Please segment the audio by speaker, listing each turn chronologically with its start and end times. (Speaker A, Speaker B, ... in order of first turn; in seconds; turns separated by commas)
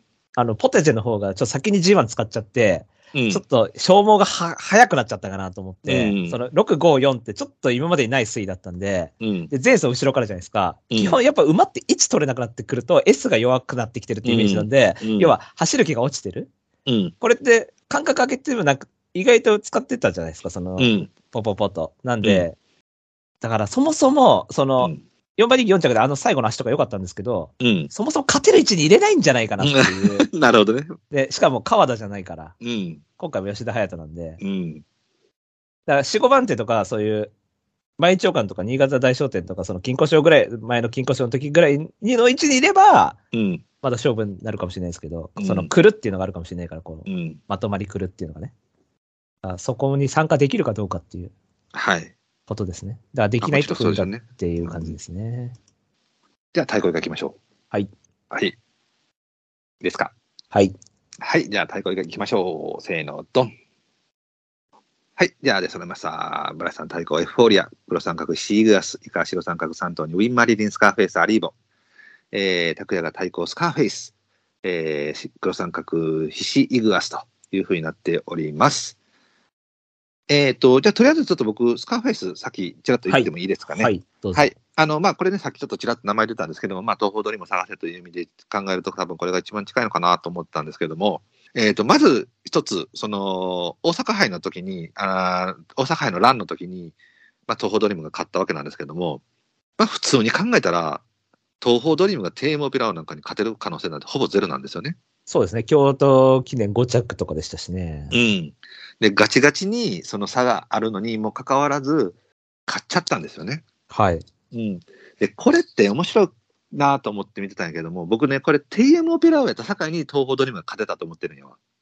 Speaker A: 0.3-16.5, Speaker B: 3.1-3.4, Speaker B: 5.8-6.4, Speaker B: 9.2-9.5, Speaker B: 10.9-11.2, Speaker B: 14.2-15.4, Speaker B: 16.9-17.1, Speaker A: 17.2-22.6, Speaker B: 20.8-21.1, Speaker A: 23.4-30.3, Speaker B: 27.6-27.9, Speaker B: 29.6-30.9, Speaker A: 31.1-32.5, Speaker B: 32.6-33.0, Speaker A: 33.2-34.4, Speaker B: 34.4-34.8, Speaker A: 35.9-37.3, Speaker A: 38.0-43.2, Speaker B: 43.3-43.6, Speaker A: 43.8-48.5, Speaker B: 45.4-45.7, Speaker B: 47.1-47.4, Speaker A: 49.4-51.3, Speaker B: 51.7-52.1, Speaker A: 52.5-55.5, Speaker B: 53.4-54.9, Speaker B: 56.5-57.4, Speaker B: 58.3-58.5, Speaker B: 59.8-60.1, Speaker B: 61.2-63.5, Speaker B: 65.2-71.5, Speaker B: 72.3-74.1, Speaker B: 74.6-79.0, Speaker B: 80.3-96.9, Speaker A: 83.1-84.5, Speaker B: 97.5-99.2, Speaker B: 99.8-101.0, Speaker B: 101.6-105.0, Speaker A: 105.3-108.1, Speaker B: 108.1-112.2, Speaker B: 112.7-113.6, Speaker A: 113.9-114.2, Speaker B: 114.5-121.5